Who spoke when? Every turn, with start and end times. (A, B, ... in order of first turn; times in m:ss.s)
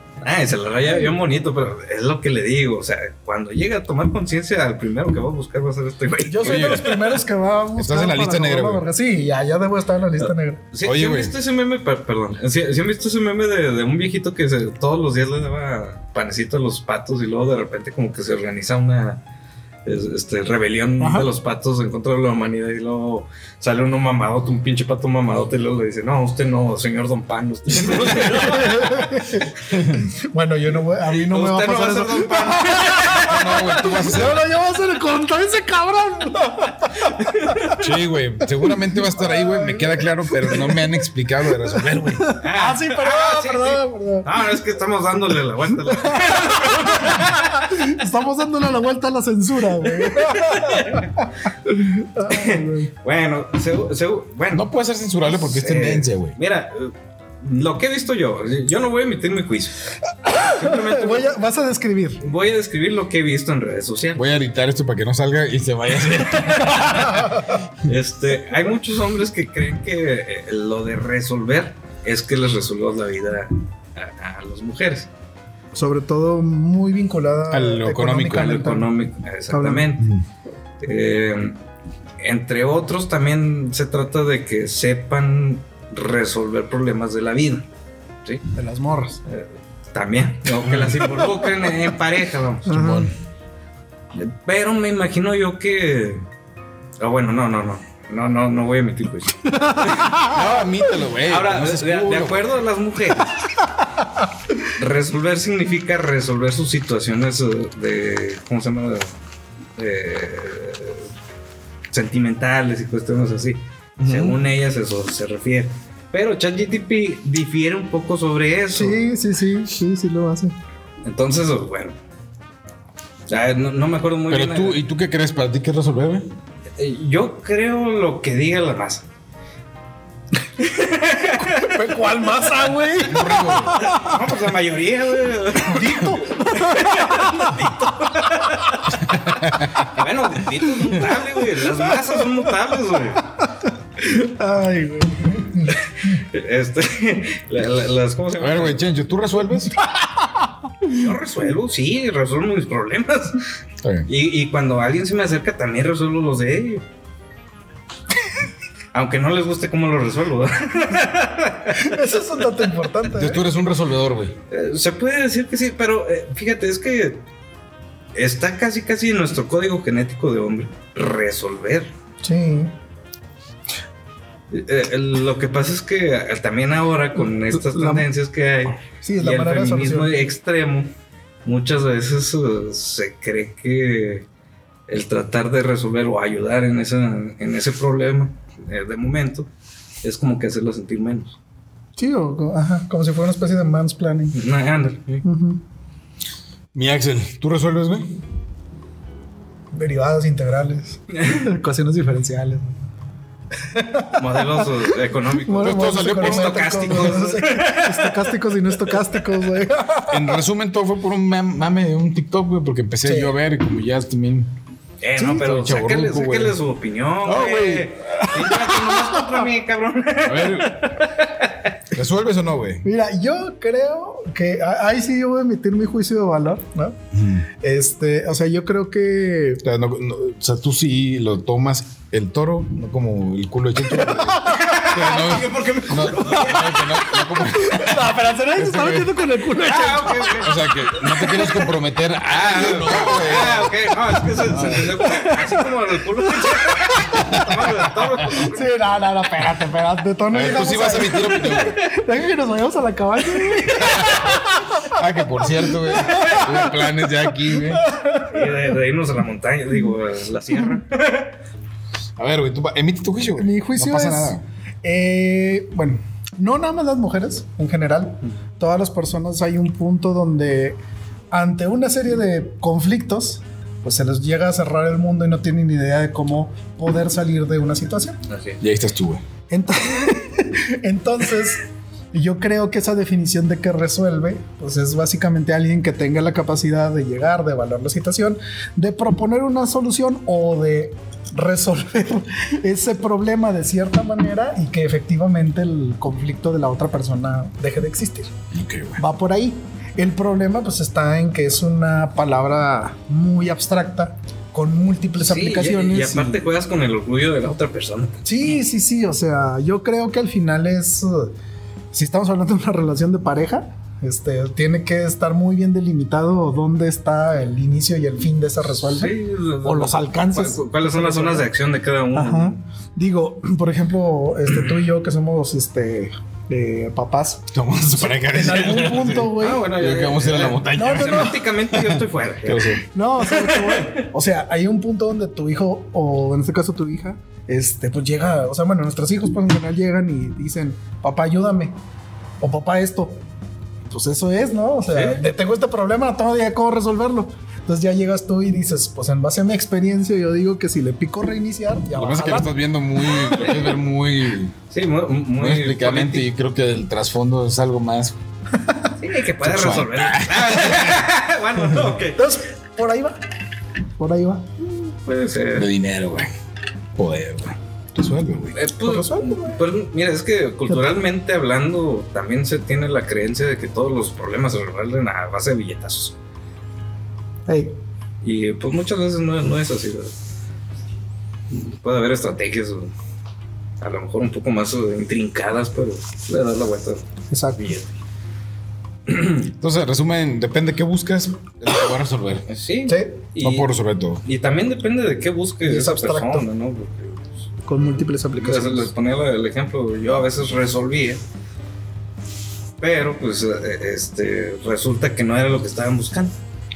0:00.2-0:07.2 A
0:00.8-0:01.1 B
0:06.2-0:10.6 B
0:06.4-0:06.9 C
0:07.8-0:08.8 C
0:10.2-0:19.2 A
0:10.8-0:11.3 C
0:19.8-0:29.3 A
0:21.0-0:21.3 B
0:28.0-0:37.8 B
0:29.6-0:30.1 C
0:31.0-0:33.8 A
0:33.2-0:34.4 C
0:37.0-0:37.8 A
0:37.8-0:42.3 C
0:38.6-0:40.8 B
0:42.1-0:44.4 B
0:42.4-0:47.7 A
0:45.9-0:52.9 B
0:50.0-0:51.1 A
0:52.2-0:54.7 A
0:54.5-0:56.4 C
0:55.2-1:01.3 A
1:00.2-1:02.2 B
1:02.2-1:04.3 A
1:04.2-1:07.4 C
1:06.6-1:07.6 B
1:07.8-1:15.1 A
1:15.7-1:18.9 B
1:17.5-1:18.6 C
1:18.3-1:20.1 A
1:19.5-1:19.9 B
1:20.0-1:20.2 C
1:20.8-1:21.6 A
1:22.2-1:27.7 A
1:28.5-1:29.2 B
1:29.2-1:32.7 A
1:30.6-1:31.0 C
1:32.7-1:33.1 B
1:32.7-1:33.1 C
1:34.1-1:36.2 A
1:37.0-1:40.3 A
1:39.5-1:40.4 B
1:40.2-1:42.5 C
1:41.2-1:43.4 A
1:44.6-1:49.1 A
1:49.8-1:51.1 A
1:51.9-1:59.0 A
1:54.1-1:54.3 B
1:58.7-2:00.6 B
2:01.0-2:02.0 A
2:03.3-2:04.8 A
2:04.3-2:06.3 C
2:06.8-2:09.1 A
2:10.6-2:12.0 A
2:11.5-2:14.1 B
2:13.0-2:13.8 C
2:13.7-2:19.0 A
2:15.6-2:17.7 B
2:18.9-2:20.0 C
2:19.8-2:23.2 A
2:23.4-2:25.8 B
2:25.7-2:28.8 A
2:28.4-2:29.8 C
2:30.0-2:30.3 B
2:30.9-2:33.4 A
2:33.8-2:34.1 C
2:34.1-2:36.8 A
2:38.9-2:42.9 A
2:41.7-2:43.4 B
2:43.1-2:44.4 C
2:44.5-2:47.2 A
2:48.1-2:51.9 A
2:52.2-2:52.7 B
2:54.5-3:00.9 A
2:57.2-2:58.0 B
2:59.0-3:00.1 B
3:01.4-3:04.2 A
3:04.9-3:09.5 A
3:10.0-3:11.4 A
3:12.0-3:14.3 B
3:14.3-3:15.2 A
3:15.2-3:15.6 B
3:16.7-3:18.1 C
3:19.7-3:22.7 B
3:21.1-3:21.5 A
3:23.6-3:30.4 B
3:24.2-3:28.3 A
3:25.6-3:27.1 C
3:28.9-3:29.1 A
3:30.1-3:34.5 C
3:33.0-3:33.3 B
3:35.0-3:41.8 A
3:35.2-3:36.6 C
3:37.2-3:37.9 C
3:40.2-3:40.9 C
3:41.9-3:42.9 C
3:42.8-3:47.0 B
3:47.1-3:47.5 C
3:47.6-3:49.6 B
3:49.6-3:59.2 C
3:53.9-3:55.4 B
3:54.4-3:56.9 A
3:56.1-3:56.7 B
3:57.3-4:01.7 B
3:59.6-4:00.8 A
4:00.4-4:03.7 C
4:02.3-4:08.7 A
4:04.5-4:04.9 C
4:04.5-4:05.7 B
4:06.3-4:07.3 B
4:07.1-4:07.7 C
4:08.3-4:18.7 B
4:10.3-4:11.8 C
4:13.7-4:17.8 C
4:16.1-4:16.5 A
4:18.2-4:21.4 A
4:22.2-4:24.4 C
4:23.4-4:30.8 B
4:31.3-4:38.2 B
4:38.3-4:38.6 A
4:38.6-4:39.2 C
4:39.5-4:58.3 B
4:58.5-4:59.0 C
4:59.0-5:06.4 B
5:05.2-5:08.2 A
5:08.2-5:11.3 B
5:11.9-5:21.5 B
5:18.9-5:22.6 A
5:22.1-5:27.5 B
5:27.5-5:32.8 C
5:28.1-5:29.7 B
5:29.3-5:34.1 A
5:30.7-5:31.4 B
5:32.9-5:41.8 B
5:42.4-5:43.2 B
5:43.9-5:52.5 B
5:44.9-5:45.2 A
5:51.9-5:54.5 C
5:54.7-5:56.3 A
5:55.4-5:58.2 C
5:59.0-6:02.2 A
5:59.4-6:01.0 C
6:01.7-6:03.2 B
6:04.0-6:04.5 B
6:04.9-6:05.7 A
6:05.5-6:06.3 C
6:07.0-6:08.6 C
6:08.5-6:16.2 A
6:08.8-6:09.6 B
6:17.5-6:17.8 B
6:18.2-6:20.1 A
6:21.5-6:22.9 A
6:23.8-6:27.9 A
6:27.3-6:27.6 B
6:29.1-6:29.5 A
6:29.5-6:32.4 C
6:32.5-6:33.7 A
6:32.9-6:33.1 B
6:33.4-6:34.2 C
6:34.2-6:37.5 A
6:35.6-6:36.5 B
6:37.6-6:38.9 B
6:38.4-6:41.2 A
6:42.8-6:46.3 A